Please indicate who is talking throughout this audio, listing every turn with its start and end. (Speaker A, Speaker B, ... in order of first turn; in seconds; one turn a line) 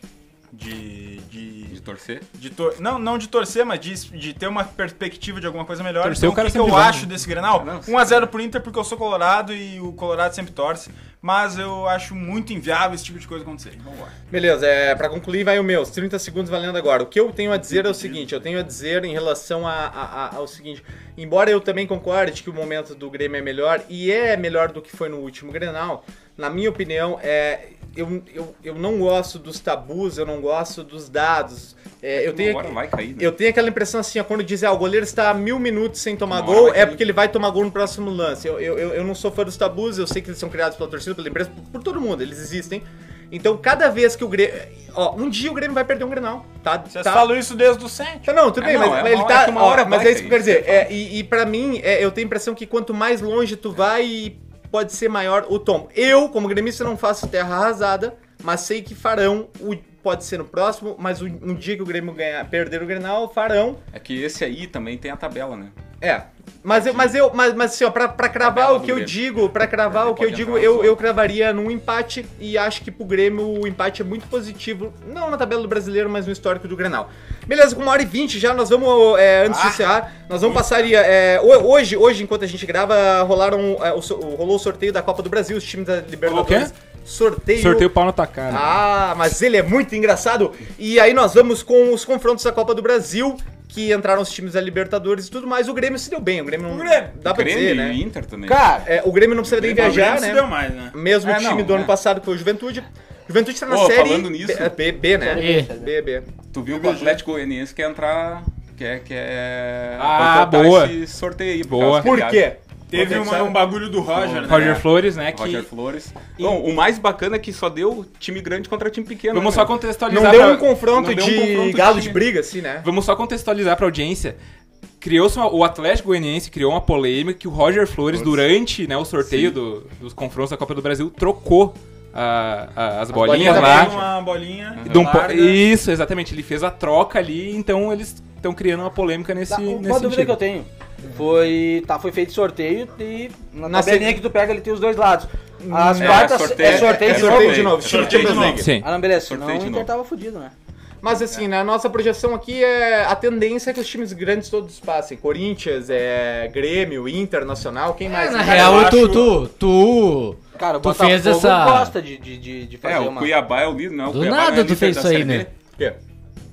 Speaker A: 0.5-1.8
Speaker B: 1.7-2.3
Speaker A: 2.4-14.1
Speaker C: 6.0-7.1
Speaker B: 7.6-8.3
Speaker D: 14.3-47.3
Speaker B: 32.1-33.4
Speaker B: 36.3-37.1
Speaker A: 46.9-48.3
Speaker D: 48.3-63.8
Speaker B: 48.6-50.9
Speaker B: 63.9-65.8
Speaker D: 66.0-87.9
Speaker B: 66.7-67.2
Speaker B: 68.4-69.2
Speaker B: 69.8-71.1
Speaker A: 79.5-79.8
Speaker A: 80.4-80.7
Speaker C: 86.2-86.7
Speaker C: 87.6-88.8
Speaker D: 88.5-98.0
Speaker A: 96.7-97.1
Speaker B: 97.2-98.7
Speaker E: 98.5-98.9
Speaker D: 98.8-106.3
Speaker B: 99.4-100.2
Speaker A: 99.5-100.9
Speaker B: 101.2-102.0
Speaker B: 103.7-104.8
Speaker E: 105.2-105.9
Speaker F: 105.4-105.7
Speaker B: 106.5-112.5
Speaker A: 106.8-107.1
Speaker C: 110.0-111.0
Speaker C: 111.6-112.1
Speaker D: 112.0-113.7
Speaker A: 112.9-114.8
Speaker B: 114.1-119.7
Speaker C: 114.5-115.7
Speaker C: 119.3-120.7
Speaker D: 120.1-122.9
Speaker B: 120.9-122.3
Speaker C: 122.8-124.4
Speaker C: 125.0-133.9
Speaker B: 128.1-128.4
Speaker B: 129.2-129.5
Speaker D: 133.2-134.1
Speaker A: 133.2-135.7
Speaker B: 134.8-135.2
Speaker C: 134.8-140.4
Speaker E: 139.5-150.5
Speaker D: 143.7-144.2
Speaker D: 145.6-148.7
Speaker B: 146.0-149.9
Speaker A: 147.8-148.6
Speaker C: 148.5-148.9
Speaker D: 151.0-159.1
Speaker F: 158.0-161.9
Speaker A: 158.4-159.4
Speaker E: 160.6-163.4
Speaker B: 162.8-165.5
Speaker F: 164.1-165.5